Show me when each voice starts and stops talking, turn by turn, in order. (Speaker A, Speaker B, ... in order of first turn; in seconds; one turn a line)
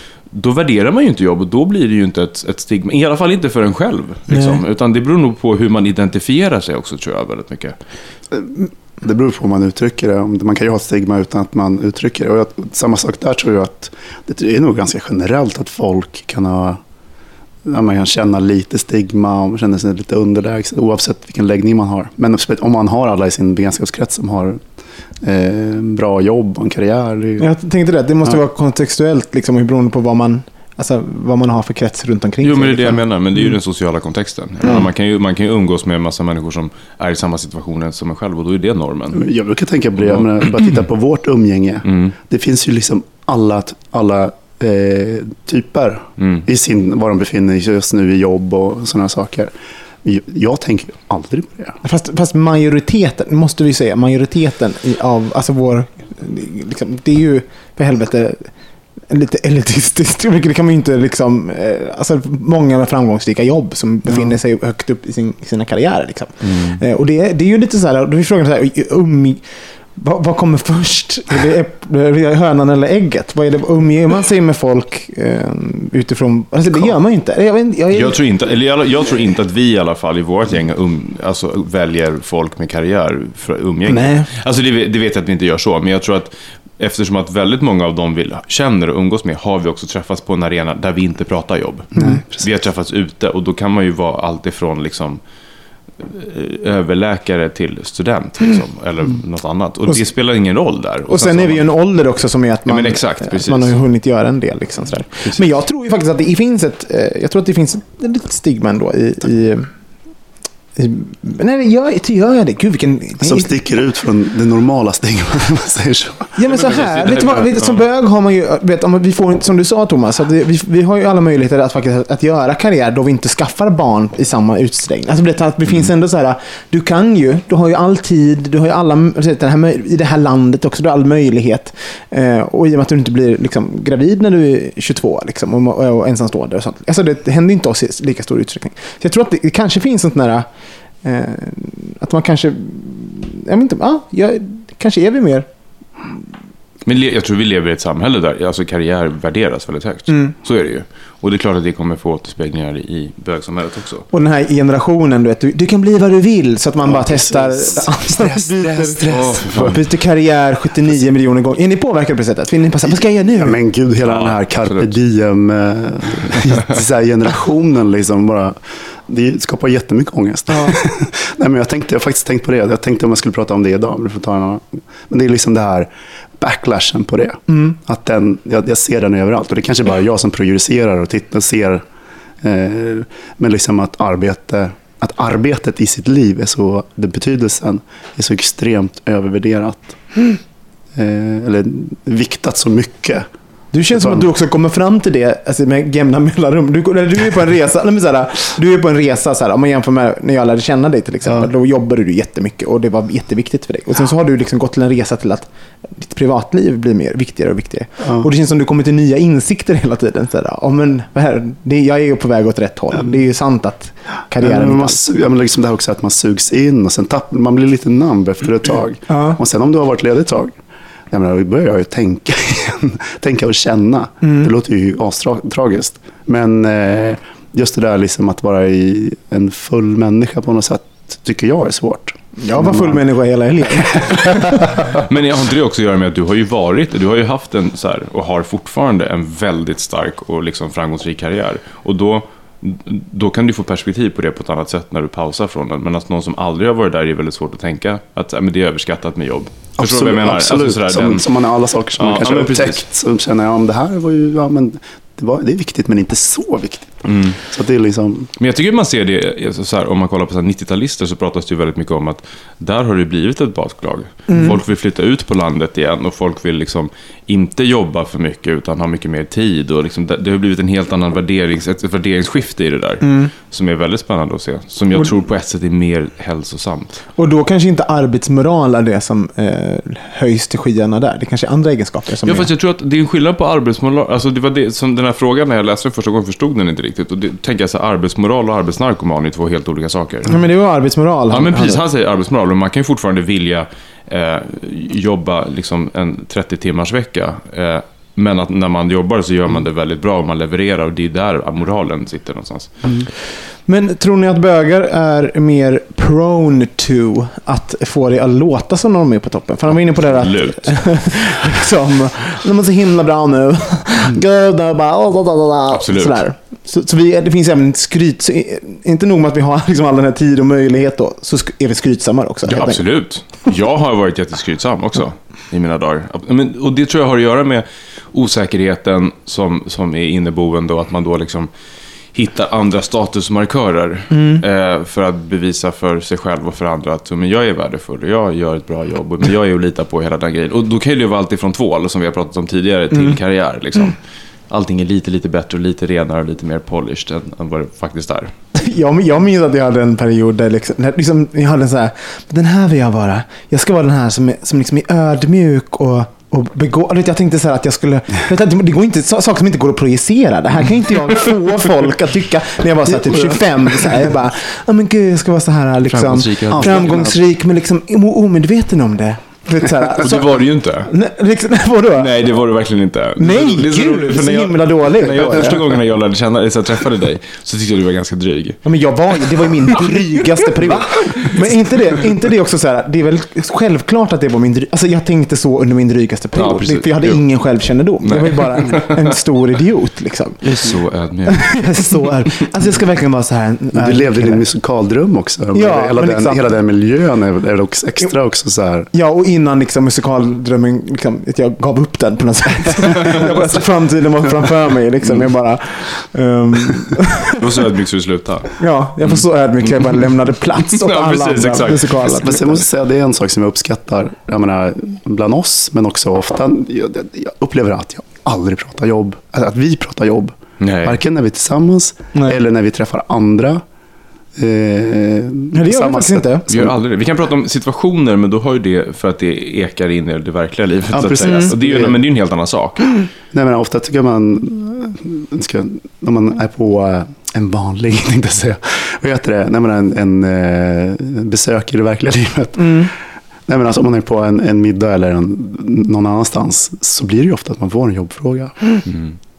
Speaker A: 0.3-7.8
Speaker B: 4.3-4.6
Speaker C: 8.3-16.8
Speaker C: 17.7-24.6
Speaker C: 25.2-27.5
Speaker B: 27.4-33.0
Speaker A: 32.4-39.2
Speaker C: 39.1-51.8
Speaker A: 40.0-40.8
Speaker A: 41.9-42.1
Speaker A: 46.2-46.5
Speaker B: 51.8-58.5
Speaker B: 59.1-69.4
Speaker A: 66.4-66.8
Speaker B: 70.0-78.2
Speaker A: 77.9-95.2
Speaker B: 83.9-84.3
Speaker C: 91.9-92.5
Speaker B: 92.0-92.2
Speaker A: 96.0-101.7
Speaker B: 101.1-109.7
Speaker A: 102.7-103.8
Speaker B: 110.8-113.5
Speaker C: 113.2-116.6
Speaker B: 116.4-140.5
Speaker A: 116.5-117.8
Speaker B: 141.0-145.5
Speaker A: 146.9-154.1
Speaker B: 150.1-150.3
Speaker B: 154.1-163.6
Speaker C: 156.8-159.8
Speaker A: 159.1-159.8
Speaker C: 162.9-181.8
Speaker A: 164.1-164.9
Speaker B: 170.5-170.8
Speaker B: 177.5-177.8
Speaker C: 182.4-190.0
Speaker C: 190.9-193.3
Speaker B: 193.7-215.0
Speaker C: 193.9-194.2
Speaker C: 208.0-208.3
Speaker C: 214.4-220.6
Speaker B: 219.1-219.4
Speaker C: 221.1-233.0
Speaker B: 224.2-224.5
Speaker B: 232.4-234.6
Speaker C: 233.8-234.4
Speaker A: 235.0-251.3
Speaker C: 249.8-258.3
Speaker A: 252.0-252.8
Speaker A: 257.1-257.4
Speaker A: 258.4-277.0
Speaker B: 264.3-264.6
Speaker B: 273.0-273.3
Speaker B: 277.2-282.5
Speaker A: 282.2-290.4
Speaker B: 290.3-291.8
Speaker A: 291.3-302.7
Speaker B: 303.7-322.9
Speaker A: 310.0-310.8
Speaker A: 315.7-316.2
Speaker A: 322.5-331.5
Speaker A: 332.1-344.0
Speaker B: 334.1-334.4
Speaker A: 344.5-348.3
Speaker B: 348.5-372.3
Speaker C: 362.9-364.1
Speaker A: 365.9-367.1
Speaker C: 366.5-367.2
Speaker A: 370.0-370.9
Speaker A: 372.0-378.6
Speaker B: 373.2-375.6
Speaker B: 378.6-390.6
Speaker A: 386.4-387.2
Speaker A: 388.0-389.1
Speaker A: 390.4-391.9
Speaker B: 391.3-394.4
Speaker C: 393.7-398.9
Speaker B: 395.5-396.6
Speaker B: 398.9-407.5
Speaker A: 407.4-410.0
Speaker B: 408.6-412.6
Speaker A: 410.7-412.2
Speaker C: 412.2-423.6
Speaker A: 420.6-421.0
Speaker B: 422.1-422.4
Speaker C: 424.4-426.7
Speaker B: 425.5-426.5
Speaker A: 426.5-432.9
Speaker C: 430.9-432.0
Speaker B: 431.2-431.5
Speaker C: 433.3-442.9
Speaker B: 442.6-442.9
Speaker C: 443.5-448.8
Speaker A: 448.9-449.2